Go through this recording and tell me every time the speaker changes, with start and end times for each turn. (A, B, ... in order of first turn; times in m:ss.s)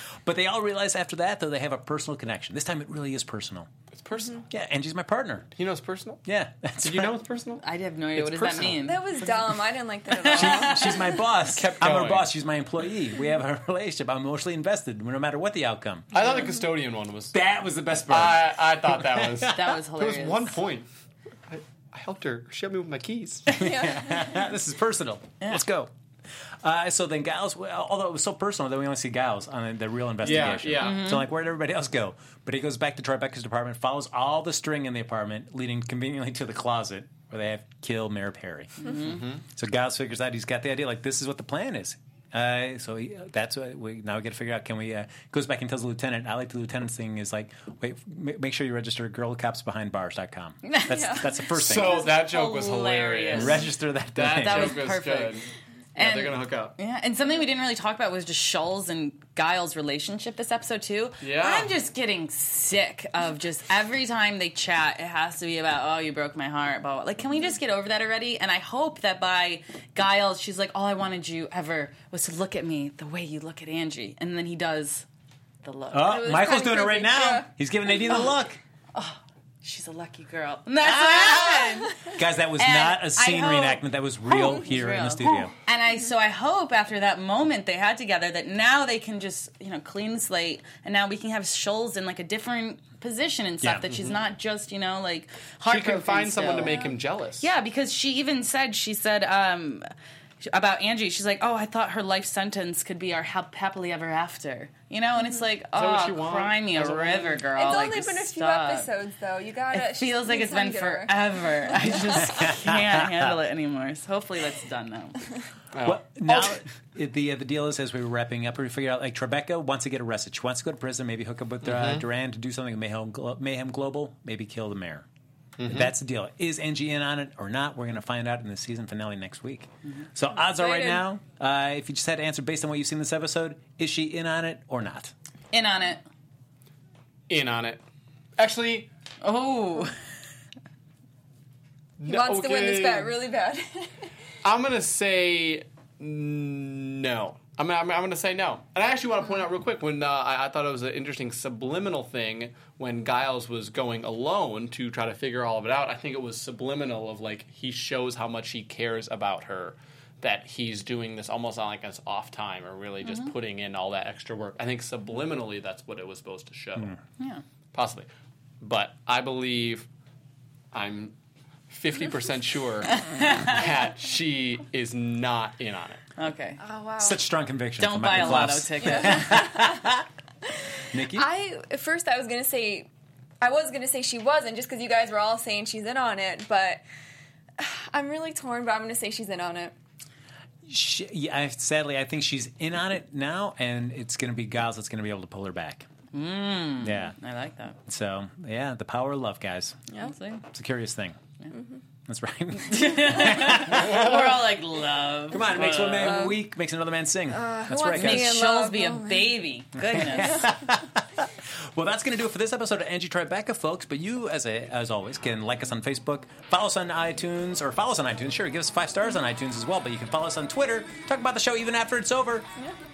0:00.2-0:03.7 A
0:03.9-0:04.4 B
0:04.5-0:05.5 A
0:05.6-0:06.2 B
0:06.2-0:07.2 A
0:06.8-0:07.6 B
0:07.6-0:09.0 C
0:08.2-0:08.8 B
0:08.8-0:11.1 D
0:10.1-0:11.0 C
0:10.3-0:16.1 A
0:11.5-0:12.3 B
0:16.1-0:17.3 B
0:17.3-0:19.6 A
0:18.1-0:20.9 B
0:19.5-0:20.6 C
0:21.5-0:23.5 B
0:23.5-0:25.9 A
0:23.6-0:24.4 D
0:26.6-0:38.7 A
0:30.2-0:31.2 B
0:30.3-0:31.3 C
0:38.8-0:39.2 C
0:39.0-0:39.4 B
0:39.4-0:52.1 A
0:50.6-0:51.2 C
0:50.9-0:51.9 D
0:51.5-0:56.8 B
0:51.8-0:53.7 C
0:53.3-0:54.8 A
0:54.2-0:55.4 C
0:55.9-1:15.0 C
1:01.2-1:01.7 B
1:15.6-1:16.5 C
1:15.9-1:18.6 A
1:16.0-1:17.5 D
1:18.9-1:22.0 C
1:20.8-1:25.5 A
1:22.6-1:36.8 C
1:33.6-1:33.9 A
1:35.6-1:37.5 B
1:36.6-1:36.9 D
1:37.4-1:39.9 C
1:40.4-1:48.9 C
1:45.7-1:47.5 B
1:47.5-1:52.4 D
1:49.7-1:55.2 C
1:52.4-1:52.7 A
1:55.7-1:56.5 B
1:55.8-2:05.0 A
2:01.6-2:02.0 B
2:05.6-2:05.9 B
2:05.6-2:15.1 A
2:10.6-2:11.0 D
2:15.5-2:16.0 C
2:17.3-2:17.8 B
2:18.4-2:18.9 B
2:19.2-2:20.0 C
2:22.0-2:23.2 B
2:22.1-2:23.9 D
2:24.4-2:47.0 B
2:47.2-2:47.4 C
2:47.7-2:48.1 B
2:48.6-2:49.9 B
2:50.7-2:51.2 B
2:51.7-2:56.0 B
2:52.9-2:53.6 C
2:56.2-2:56.6 C
2:56.6-2:57.2 D
2:57.0-3:00.0 A
2:57.8-2:59.4 C
2:58.8-2:59.8 D
3:00.9-3:01.3 A
3:01.1-3:02.9 D
3:03.4-3:06.8 D
3:07.6-3:09.7 D
3:10.7-3:15.9 A
3:16.1-3:17.8 C
3:16.8-3:17.1 A
3:17.8-3:19.8 A
3:20.0-3:20.4 C
3:20.5-3:21.2 A
3:21.5-3:21.8 D
3:22.0-3:24.3 A
3:22.6-3:26.3 C
3:25.3-3:28.4 A
3:25.6-3:26.0 B
3:26.0-3:26.4 D
3:27.3-3:29.3 D
3:27.9-3:30.5 C
3:29.8-3:42.5 A